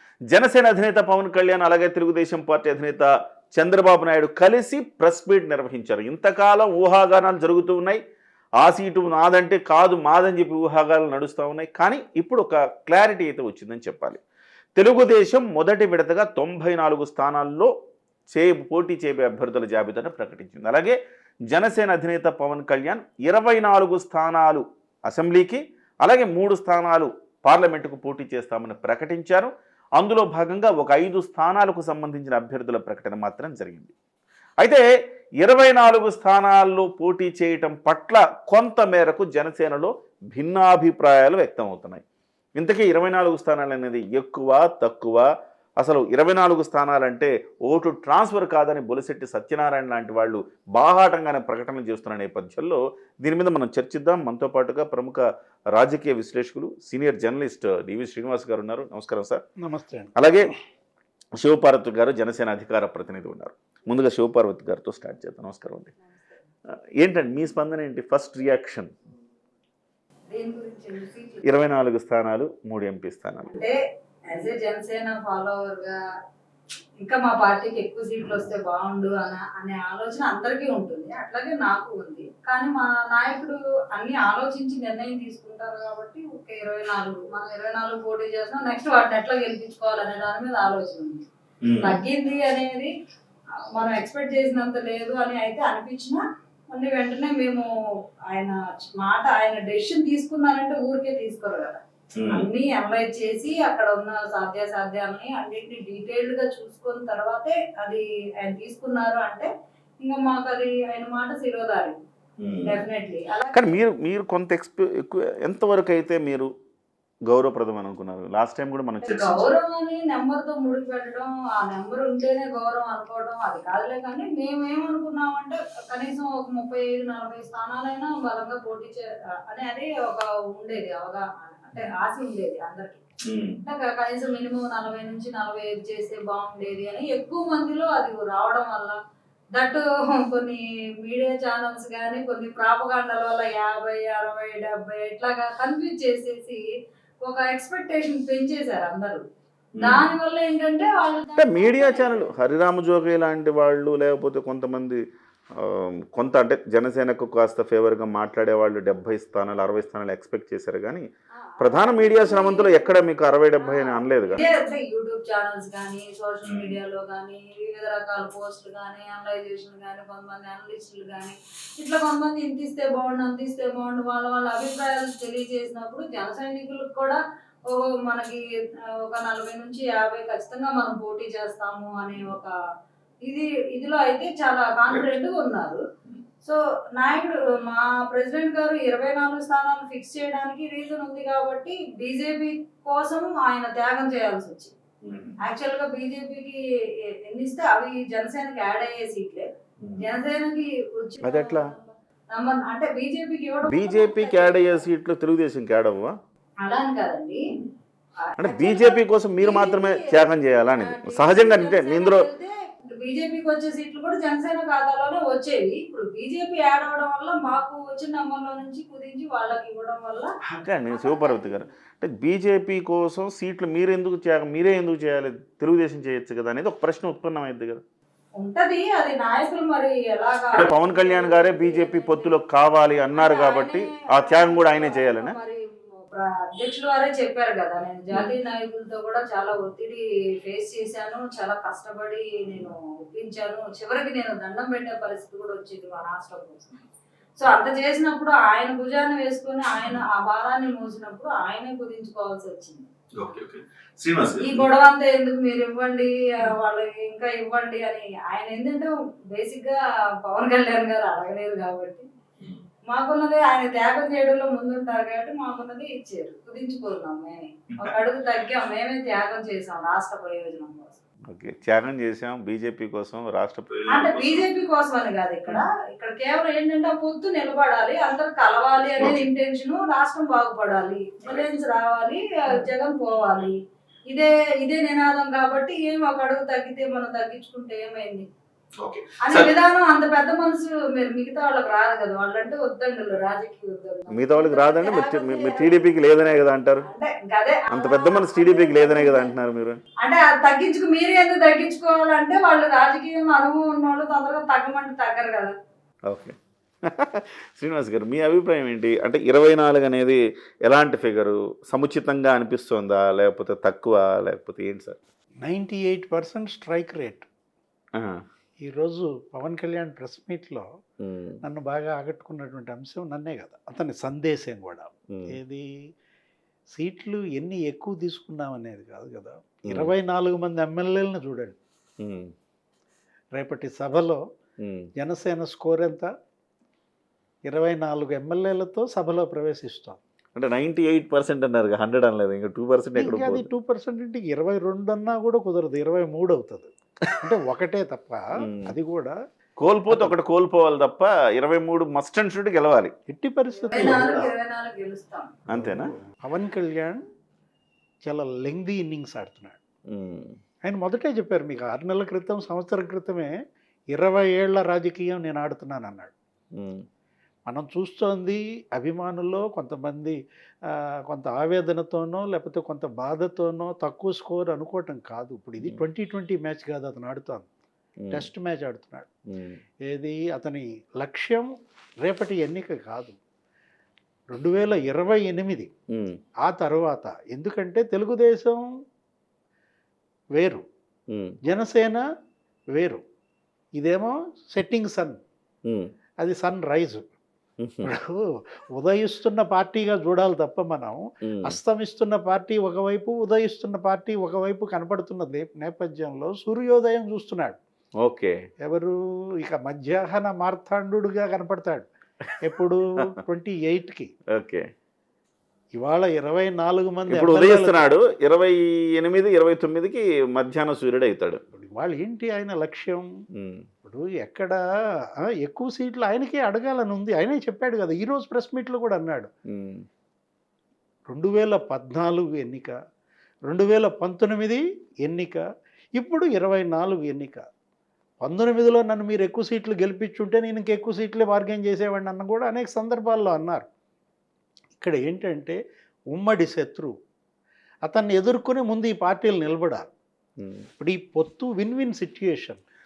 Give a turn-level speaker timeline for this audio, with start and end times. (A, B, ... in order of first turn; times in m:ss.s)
0:00.3-0:08.0 A
0:08.6-0:14.2 A
0:14.8-0:17.7 A
0:18.3-0:21.0 A
0:21.5-0:33.9 A
0:34.6-0:34.8 A
0:35.4-0:42.0 A
0:42.6-0:45.3 A
0:45.8-0:59.4 A
0:59.6-1:00.3 B
1:00.2-1:00.5 A
1:01.4-1:05.9 A
1:07.0-1:08.9 A
1:10.3-1:11.6 C
1:11.4-1:13.6 A
1:13.5-1:13.8 C
1:14.3-1:16.0 C
1:17.0-1:31.3 C
1:31.6-1:32.0 A
1:31.8-1:32.9 C
1:33.8-1:37.7 C
1:38.3-1:52.0 C
1:42.2-1:42.5 A
1:52.4-1:52.8 A
1:52.6-1:53.8 C
1:53.5-1:56.5 A
1:57.3-1:59.5 A
1:59.0-2:13.0 C
2:13.2-2:13.6 A
2:13.6-2:19.0 C
2:19.5-2:26.7 C
2:27.2-2:29.2 C
2:29.8-2:30.2 A
2:29.8-2:32.3 C
2:31.4-2:35.0 A
2:35.5-2:41.1 A
2:41.5-2:43.1 C
2:41.6-2:44.4 A
2:43.6-3:02.5 C
2:46.4-2:46.8 A
3:03.2-3:05.8 C
3:06.4-3:14.7 C
3:15.0-3:15.4 A
3:15.4-3:19.5 C
3:19.8-3:20.1 A
3:20.0-3:24.9 C
3:21.2-3:21.7 A
3:23.7-3:26.2 A
3:26.6-3:27.4 C
3:28.2-3:40.3 C
3:28.4-3:32.3 A
3:40.4-3:47.8 A
3:40.9-3:41.6 C
3:48.4-3:52.4 C
3:50.5-3:55.4 A
3:53.1-4:12.8 C
4:09.8-4:10.1 A
4:13.2-4:14.7 A
4:14.4-4:22.1 C
4:22.9-4:31.0 C
4:27.7-4:28.0 A
4:31.3-4:34.4 A
4:33.9-4:43.6 C
4:39.0-4:39.3 A
4:44.1-4:48.3 C
4:48.8-4:49.5 A
4:49.2-4:59.4 C
4:54.1-4:56.9 A
4:57.7-4:59.8 A
5:00.0-5:05.5 C
5:06.1-5:15.0 A
5:15.4-5:17.3 B
5:18.0-5:18.2 A
5:18.6-5:20.7 B
5:21.0-5:21.4 A
5:21.4-5:25.8 B
5:25.1-5:25.4 A
5:26.7-5:31.6 B
5:32.0-5:32.3 A
5:33.4-5:34.2 B
5:34.6-5:34.9 A
5:35.0-5:36.1 B
5:37.5-5:40.0 B
5:40.4-5:43.5 A
5:43.0-5:49.2 B
5:48.4-5:48.7 A
5:49.6-5:52.9 A
5:49.9-5:50.2 B
5:53.1-5:54.3 B
5:53.7-5:55.4 C
5:55.5-5:55.9 A
5:55.5-5:57.0 B
5:58.0-5:59.6 B
5:59.9-6:00.4 A
6:00.6-6:03.4 B
6:03.9-6:06.1 B
6:06.6-6:06.8 A
6:07.5-6:17.5 B
6:18.0-6:18.3 A
6:18.1-6:19.1 B
6:19.3-6:19.6 A
6:19.9-6:23.2 B
6:24.3-6:25.7 B
6:25.9-6:26.2 A
6:26.4-6:28.7 B
6:30.4-6:30.6 B
6:31.1-6:31.4 A
6:31.4-6:32.0 B
6:32.7-6:33.0 B
6:33.8-6:35.2 B
6:35.7-6:35.9 A
6:36.2-6:37.1 B
6:37.6-6:37.9 A
6:37.8-6:47.6 B
6:41.2-6:41.6 A
6:48.0-6:48.4 A
6:48.6-6:51.9 B
6:52.4-6:54.1 B
6:54.3-6:54.7 A
6:55.8-6:57.9 B
6:57.1-7:01.4 A
7:01.5-7:03.1 B
7:03.4-7:03.7 A
7:03.8-7:04.6 B
7:05.2-7:09.3 B
7:09.5-7:09.8 A
7:11.1-7:12.8 B
7:13.5-7:15.4 B
7:16.0-7:17.4 B
7:18.2-7:23.7 B
7:24.8-7:25.6 B
7:26.1-7:27.0 B
7:27.9-7:29.9 B
7:30.4-7:30.7 A
7:30.8-7:32.6 B